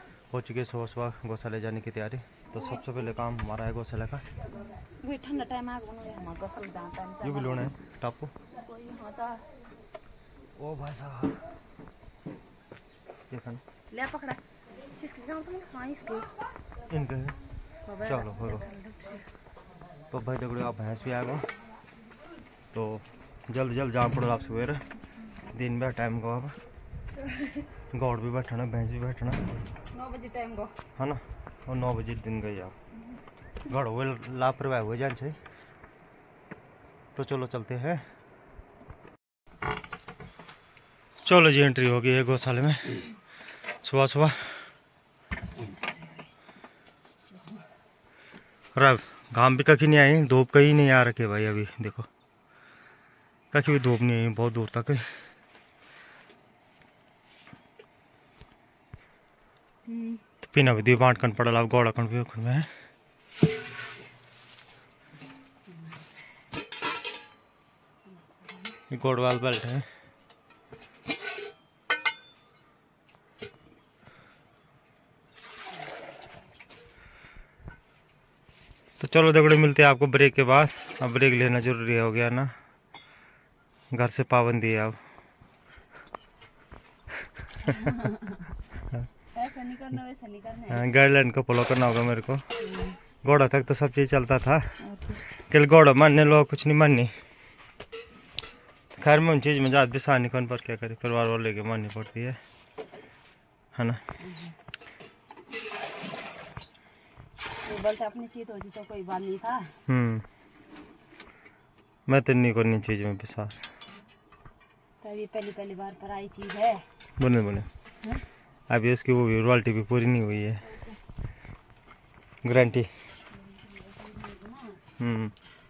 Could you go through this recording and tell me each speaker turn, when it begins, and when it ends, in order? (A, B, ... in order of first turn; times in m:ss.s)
0:00.3-0:04.3 A
0:04.7-0:07.7 B
0:07.2-0:08.3 A
0:08.5-0:09.5 B
0:10.6-0:11.4 A
0:13.3-0:13.6 A
0:13.9-0:16.3 B
0:16.9-0:17.4 A
0:17.9-0:19.2 B
0:18.0-0:18.7 A
0:20.1-0:21.5 A
0:22.7-0:24.8 A
0:25.5-0:26.6 A
0:27.9-0:29.5 A
0:29.9-0:30.8 B
0:31.0-0:32.8 A
0:33.7-0:35.4 A
0:37.2-0:38.0 A
0:41.2-0:43.0 A
0:43.8-0:44.7 A
0:48.8-0:52.1 A
0:53.5-0:55.1 A
0:59.9-1:00.2 B
1:00.5-1:02.7 A
1:08.2-1:08.8 B
1:08.9-1:09.9 A
1:19.0-1:22.5 A
1:23.9-1:25.0 A
1:27.6-1:28.4 B
1:29.3-1:30.8 B
1:30.7-1:32.4 A
1:32.6-1:33.0 B
1:33.2-1:34.8 A
1:34.8-1:35.2 B
1:35.3-1:37.1 A
1:39.0-1:42.4 A
1:43.7-1:44.0 A
1:44.2-1:44.5 B
1:47.6-1:49.8 B
1:49.9-1:50.2 A
1:52.1-1:53.7 A
1:55.0-1:56.8 B
1:57.2-1:57.7 A
1:58.7-2:00.6 A
2:00.6-2:01.0 B
2:02.4-2:02.9 A
2:03.3-2:04.8 B
2:05.0-2:05.3 A